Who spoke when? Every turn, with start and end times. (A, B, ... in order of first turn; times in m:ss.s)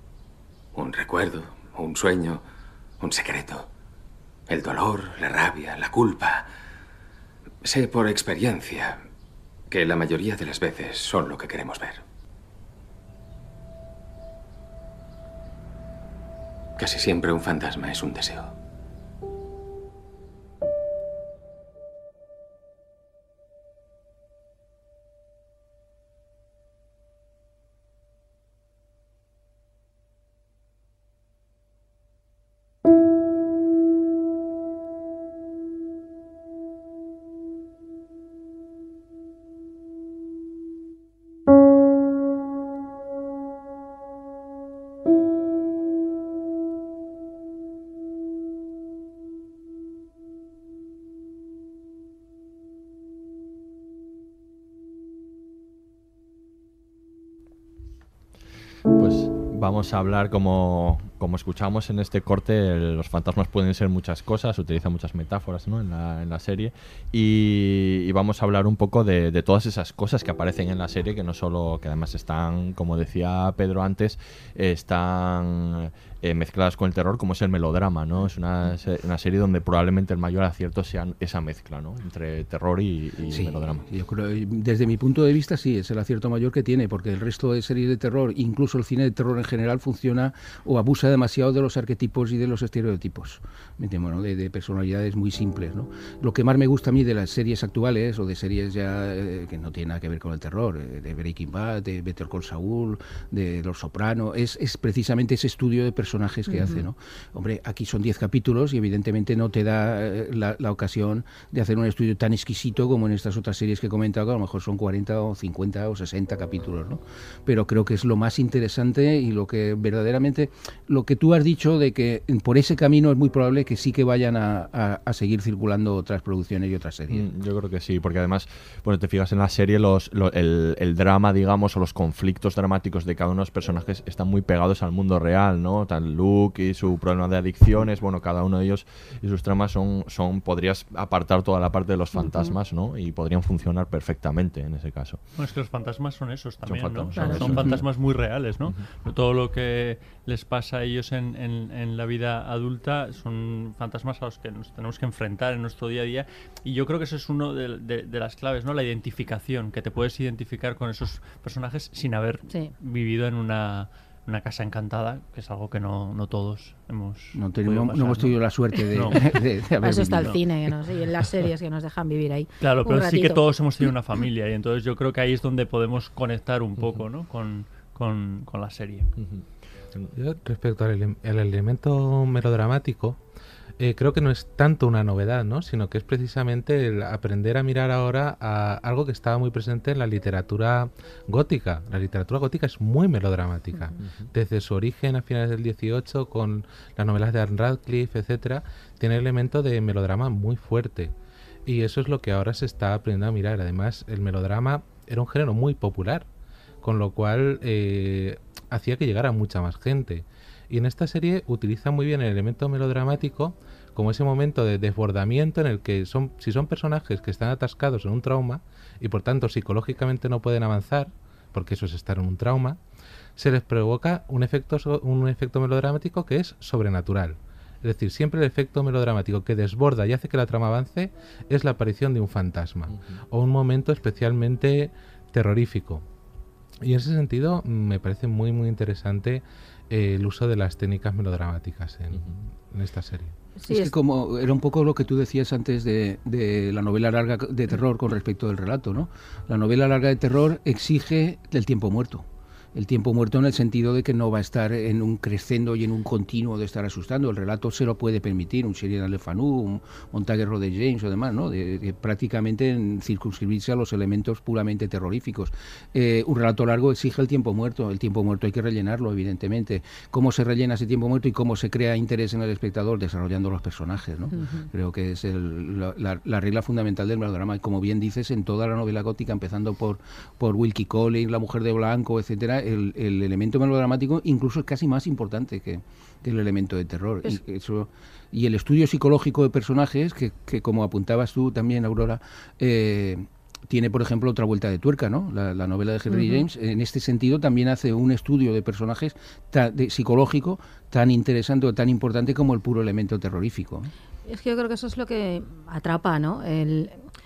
0:00.7-0:02.4 A
0:03.0-0:03.7 A
0:04.5-0:06.5 A
0:07.6-0:09.0 A
0:09.7-0:12.0 A
0:16.8-0:18.5 A
0:58.9-1:23.8 B
1:23.3-2:07.3 C
1:46.5-1:46.9 D
2:07.1-2:25.2 B
2:22.2-2:22.6 D
2:25.4-2:49.3 E
2:26.7-2:27.9 B
2:27.2-2:27.5 D
2:27.4-2:27.8 C
2:47.4-2:50.4 C
2:49.8-2:53.4 D
2:52.6-2:59.1 E
2:59.2-3:00.1 B
3:00.2-3:03.2 F
3:03.8-3:21.1 F
3:21.7-3:26.3 F
3:26.8-3:42.8 F
3:43.4-3:56.0 F
3:56.8-4:03.3 F
4:03.6-4:03.9 D
4:03.7-5:03.9 C
4:34.3-4:34.7 D
4:56.1-4:56.4 D
5:04.3-5:06.9 D